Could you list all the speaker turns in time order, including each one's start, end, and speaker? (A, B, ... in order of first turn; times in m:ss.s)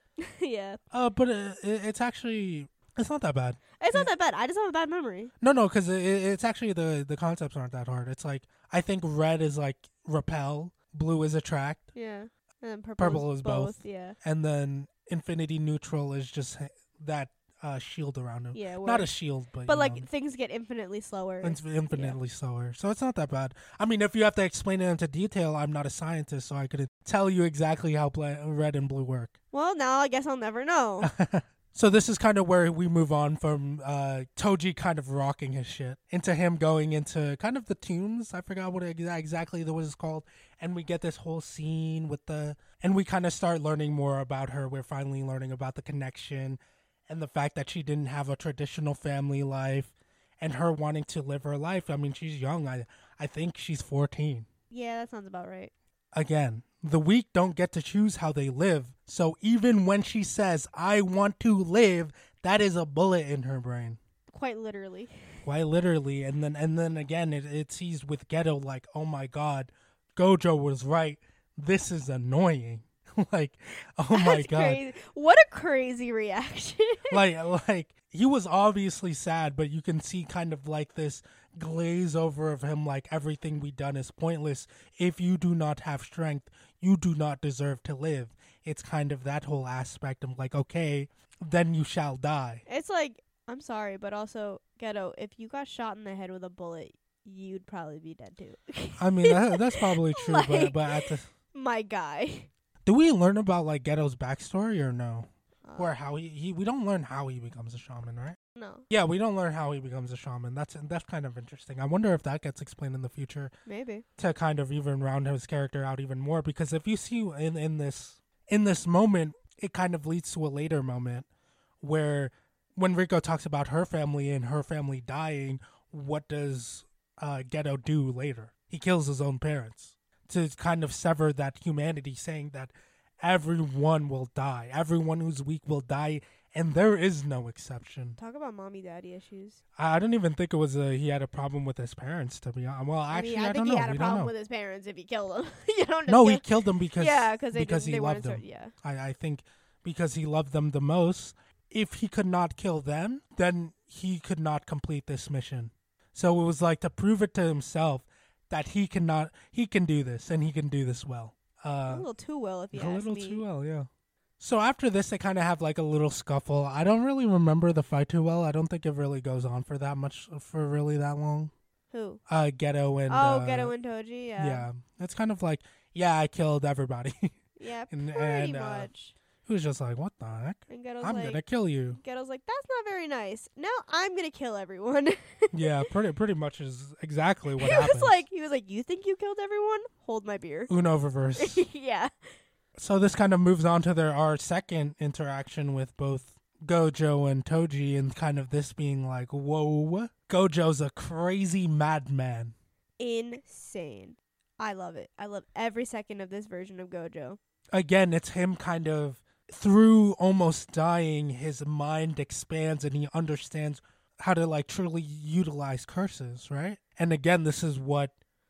0:00.2-0:00.8 A
0:00.9-0:04.1 B
0:03.8-0:05.3 A
0:05.4-0:11.8 B
0:11.9-0:14.2 A
0:13.0-0:20.0 B
0:18.5-0:19.1 A
0:19.6-0:22.2 A
0:21.4-0:29.3 B
0:29.5-0:31.1 A
0:31.0-0:54.5 B
0:54.7-0:55.7 A
0:56.1-1:04.0 B
1:04.3-1:05.1 A
1:05.4-1:14.8 B
1:14.1-1:17.2 A
1:17.1-1:32.6 B
1:32.7-1:42.5 A
1:39.0-1:41.3 B
1:42.8-1:48.4 B
1:45.7-1:45.9 A
1:48.5-1:48.8 A
1:48.9-1:53.5 B
1:53.6-1:54.0 A
1:54.2-2:01.3 B
2:01.8-2:18.2 B
2:18.2-2:19.6 A
2:19.8-2:24.3 B
2:23.1-2:26.4 A
2:26.1-2:42.0 B
2:27.0-2:28.7 A
2:41.9-2:43.4 A
2:42.7-2:51.5 B
2:51.9-2:52.2 A
2:52.3-2:53.7 B
2:53.1-2:54.7 A
2:54.4-2:57.3 B
2:57.6-2:59.1 A
2:57.9-2:58.9 B
2:59.4-3:02.0 B
3:00.7-3:01.4 A
3:01.9-3:05.9 A
3:05.5-3:08.2 B
3:07.6-3:10.7 A
3:10.7-3:11.6 B
3:11.4-3:12.1 A
3:12.8-3:22.5 B
3:23.0-3:27.4 A
3:27.7-3:38.1 B